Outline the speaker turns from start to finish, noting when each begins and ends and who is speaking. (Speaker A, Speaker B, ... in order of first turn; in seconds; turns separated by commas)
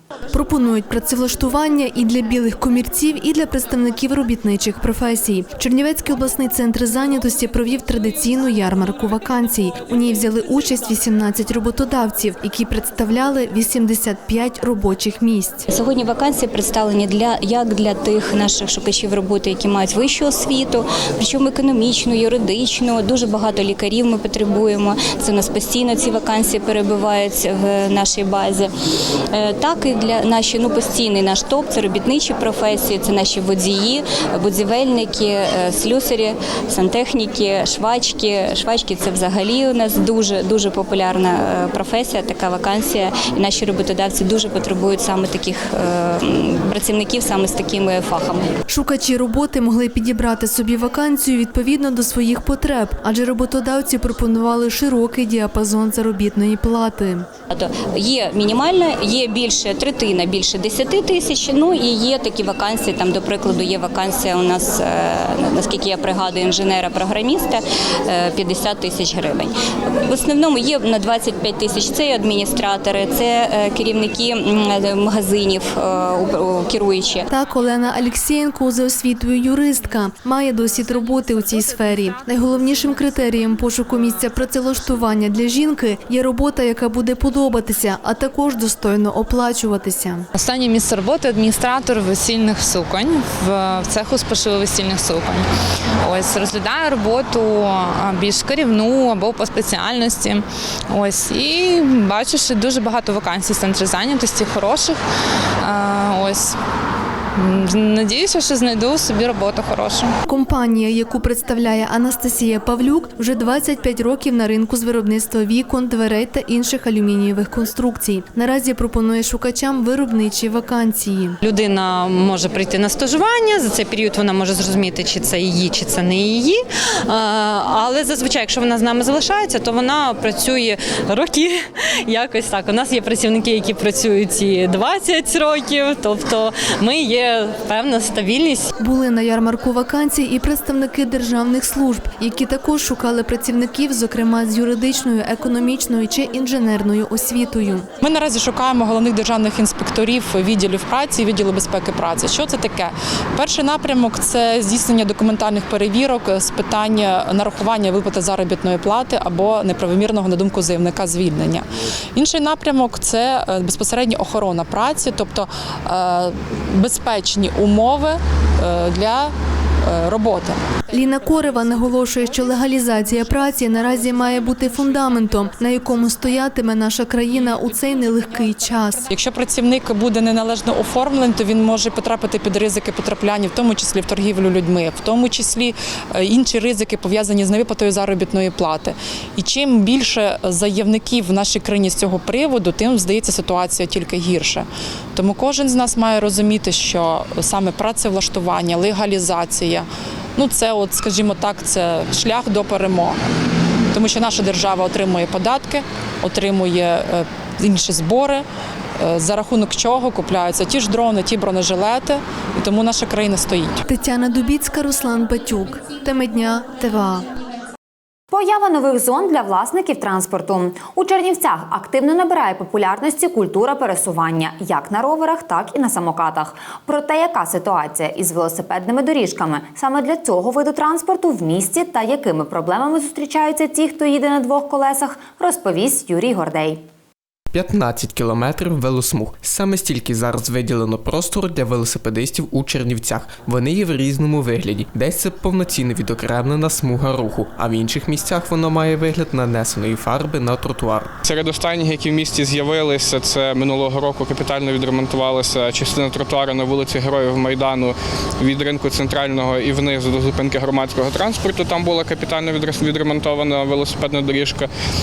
Speaker A: 0.3-15.7, Speaker B: 15.7-28.7, Speaker B: 29.3-48.5, Speaker A: 48.7-57.3, Speaker B: 57.5-69.5, Speaker B: 70.1-77.3, Speaker A: 77.3-90.3, Speaker C: 90.3-95.4, Speaker C: 96.0-100.4, Speaker C: 100.9-105.0, Speaker C: 105.6-106.5, Speaker C: 107.4-110.1, Speaker A: 110.3-121.4, Speaker D: 121.4-138.7, Speaker A: 138.8-147.9, Speaker E: 148.0-169.3, Speaker E: 169.9-170.6, Speaker A: 170.9-179.0, Speaker E: 171.2-175.9, Speaker E: 177.3-203.2, Speaker E: 203.9-208.4, Speaker E: 209.0-213.8, Speaker A: 213.9-217.3, Speaker F: 218.3-236.8, Speaker G: 237.5-251.1, Speaker H: 251.2-264.7